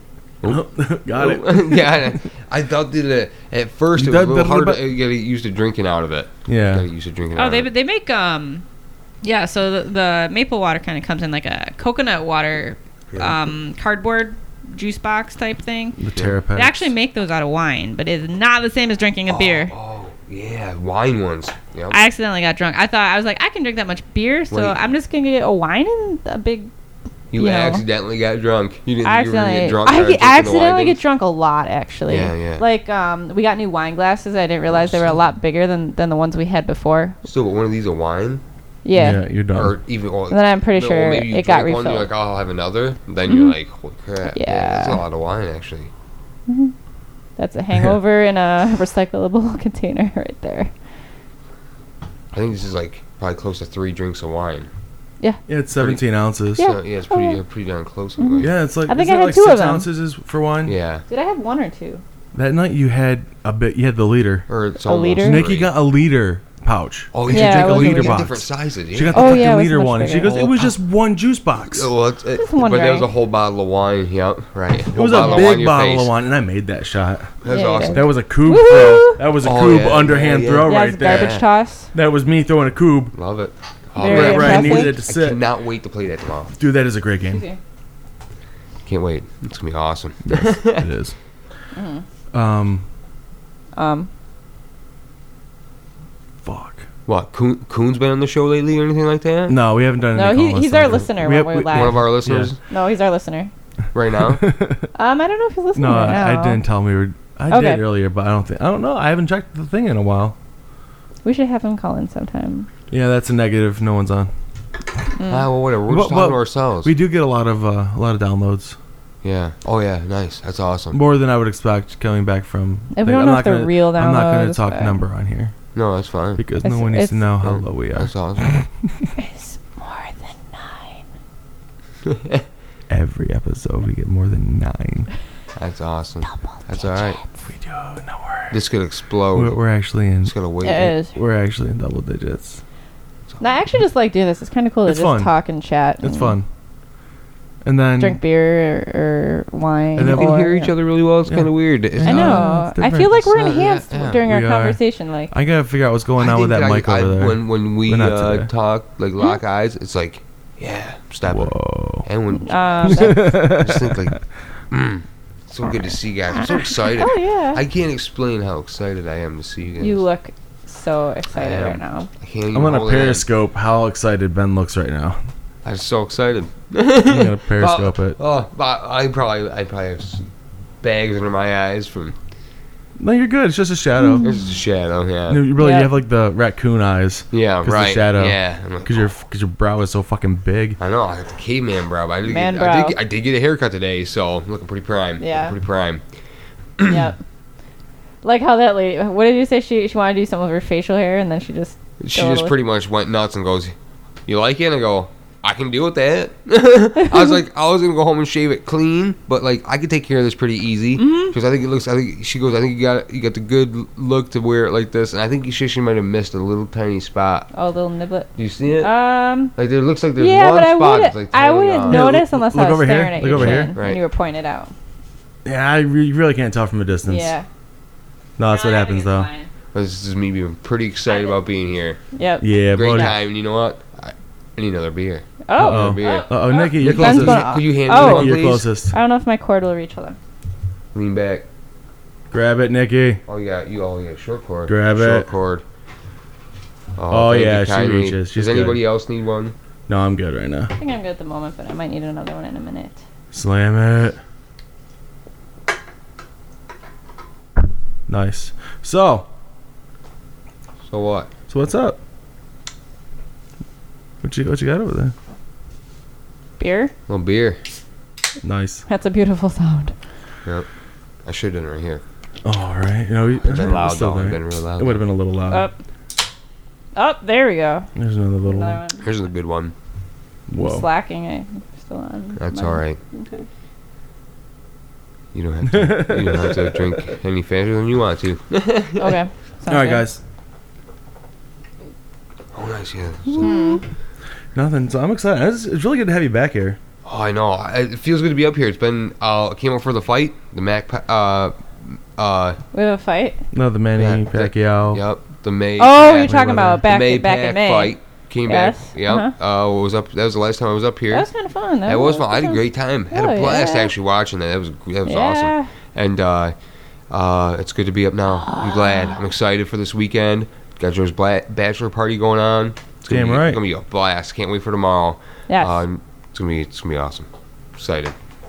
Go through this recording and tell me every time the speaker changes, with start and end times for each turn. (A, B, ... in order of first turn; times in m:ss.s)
0:00.4-0:07.7 A
0:00.5-0:02.2 B
0:04.0-0:04.8 B
0:06.5-0:06.9 B
0:07.4-0:08.6 C
0:09.2-0:16.0 C
0:16.0-0:16.9 B
0:16.5-0:19.7 C
0:19.3-0:22.0 A
0:21.9-0:26.7 C
0:24.5-0:24.8 A
0:27.3-0:31.0 A
0:27.3-0:27.8 C
0:29.0-0:37.2 C
0:32.1-0:32.6 A
0:37.2-0:38.4 A
0:38.8-0:39.2 C
0:38.9-0:39.8 B
0:39.6-0:45.9 A
0:40.3-0:42.1 C
0:43.3-0:43.6 C
0:44.3-0:45.0 C
0:46.5-0:46.7 C
0:47.4-0:50.7 C
0:52.3-0:54.7 A
0:55.5-0:56.7 B
0:55.8-0:56.0 A
0:56.6-0:57.4 C
0:56.6-0:58.5 A
0:58.2-0:59.9 C
0:58.4-1:00.8 B
1:00.7-1:01.0 A
1:01.1-1:02.0 C
1:02.4-1:04.5 B
1:04.5-1:05.7 A
1:04.8-1:05.4 C
1:05.2-1:11.9 B
1:07.1-1:09.5 A
1:07.3-1:08.3 C
1:09.1-1:10.4 C
1:10.2-1:10.8 A
1:11.7-1:16.1 A
1:12.3-1:13.1 C
1:14.9-1:17.4 B
1:17.4-1:18.1 A
1:17.5-1:19.2 C
1:17.9-1:21.4 B
1:19.4-1:21.4 A
1:20.7-1:21.9 C
1:21.9-1:23.2 B
1:23.1-1:26.5 A
1:24.0-1:25.0 C
1:24.0-1:25.4 B
1:26.6-1:27.4 B
1:27.3-1:27.6 C
1:28.9-1:30.9 A
1:30.3-1:31.2 B
1:31.7-1:32.0 C
1:32.3-1:32.8 B
1:33.8-1:34.1 C
1:36.4-1:36.8 B
1:37.1-1:39.6 A
1:39.5-1:42.5 B
1:40.1-1:42.0 C
1:41.7-1:42.6 A
1:42.7-1:43.5 C
1:43.9-1:44.4 A
1:44.4-1:44.9 B
1:45.0-1:46.6 C
1:45.8-1:50.4 B
1:47.5-1:47.8 C
1:51.2-1:52.7 C
1:52.9-1:54.3 B
1:55.2-1:55.5 C
1:55.3-1:56.9 A
1:55.9-1:58.8 B
1:59.2-2:01.0 A
2:00.9-2:05.6 B
2:02.9-2:05.0 C
2:05.7-2:06.4 A
2:06.4-2:09.1 B
2:06.6-2:07.3 C
2:07.4-2:08.6 A
2:09.2-2:11.0 C
2:12.0-2:12.4 A
2:12.9-2:15.1 B
2:15.6-2:17.2 A
2:16.7-2:17.2 C
2:17.4-2:18.6 B
2:18.5-2:19.6 A
2:19.3-2:20.3 B
2:20.2-2:20.9 A
2:20.6-2:21.1 C
2:20.9-2:22.6 B
2:23.4-2:26.4 C
2:24.9-2:25.3 B
2:26.0-2:26.5 B
2:27.6-2:28.2 B
2:28.0-2:30.7 C
2:30.0-2:30.4 B
2:30.0-2:32.5 A
2:31.3-2:33.2 B
2:32.0-2:35.3 C
2:33.2-2:34.2 A
2:34.2-2:38.5 B
2:36.2-2:44.2 A
2:41.3-2:42.1 B
2:42.3-2:43.5 C
2:42.9-2:44.2 B
2:44.7-2:50.0 A
2:46.6-2:47.6 C
2:49.8-2:52.1 C
2:51.3-2:53.2 A
2:52.5-2:55.2 B
2:55.6-3:00.2 A
2:57.1-2:58.2 B
3:00.8-3:02.2 A
3:03.0-3:04.3 B
3:04.0-3:04.5 C
3:04.2-3:05.4 A
3:05.3-3:10.8 B
3:05.6-3:05.9 C
3:07.3-3:09.1 A
3:10.8-3:16.0 A
3:12.2-3:13.0 C
3:15.2-3:15.6 C
3:16.8-3:17.1 A
3:16.8-3:17.2 C
3:18.2-3:22.6 C
3:22.0-3:23.8 A
3:24.3-3:37.5 A
3:31.0-3:31.4 C
3:37.5-3:39.6 C
3:38.4-3:38.9 A
3:39.6-3:42.0 A
3:40.2-3:44.7 C
3:41.9-3:43.8 B
3:43.3-3:44.0 A
3:45.4-3:47.3 B
3:47.1-3:47.5 C
3:48.4-3:49.3 B
3:48.5-3:49.5 C
3:49.7-3:52.0 A
3:51.1-3:51.4 C
3:52.1-3:53.1 C
3:52.4-3:53.2 B
3:52.7-3:58.6 A
3:55.5-4:00.2 C
3:55.6-3:59.0 B
4:00.9-4:01.5 A
4:02.3-4:03.2 B
4:03.3-4:05.6 A
4:04.7-4:05.3 B
4:07.0-4:09.6 A
4:07.1-4:08.8 B
4:09.9-4:10.7 B
4:10.8-4:13.0 C
4:13.3-4:14.2 B
4:18.1-4:19.3 B
4:20.8-4:21.3 A
4:21.5-4:22.0 B
4:24.2-4:25.1 B
4:26.6-4:26.9 C
4:27.1-4:27.6 A
4:28.4-4:28.8 B
4:28.9-4:29.9 C
4:31.2-4:32.0 A
4:32.4-4:35.7 B
4:33.4-4:35.0 A
4:35.5-4:35.7 C
4:37.0-4:37.9 C
4:38.0-4:38.8 B
4:38.4-4:39.0 C
4:39.0-4:39.7 A
4:40.5-4:40.9 B
4:40.6-4:43.4 C
4:42.4-4:43.0 A
4:45.3-4:49.2 A
4:45.7-4:47.0 B
4:49.0-4:50.0 C
4:49.7-4:50.2 B
4:52.5-4:53.8 A
4:53.3-4:53.8 C
4:54.6-4:56.8 B
4:57.0-5:02.6 A
5:02.7-5:03.4 C
5:03.5-5:05.0 B
5:04.0-5:11.3 A
5:05.8-5:09.3 C
5:06.1-5:06.8 B
5:11.1-5:13.9 C
5:11.9-5:16.6 A
5:15.1-5:15.7 C
5:17.1-5:28.2 A
5:18.3-5:19.2 C
5:23.1-5:23.6 B
5:25.5-5:25.8 C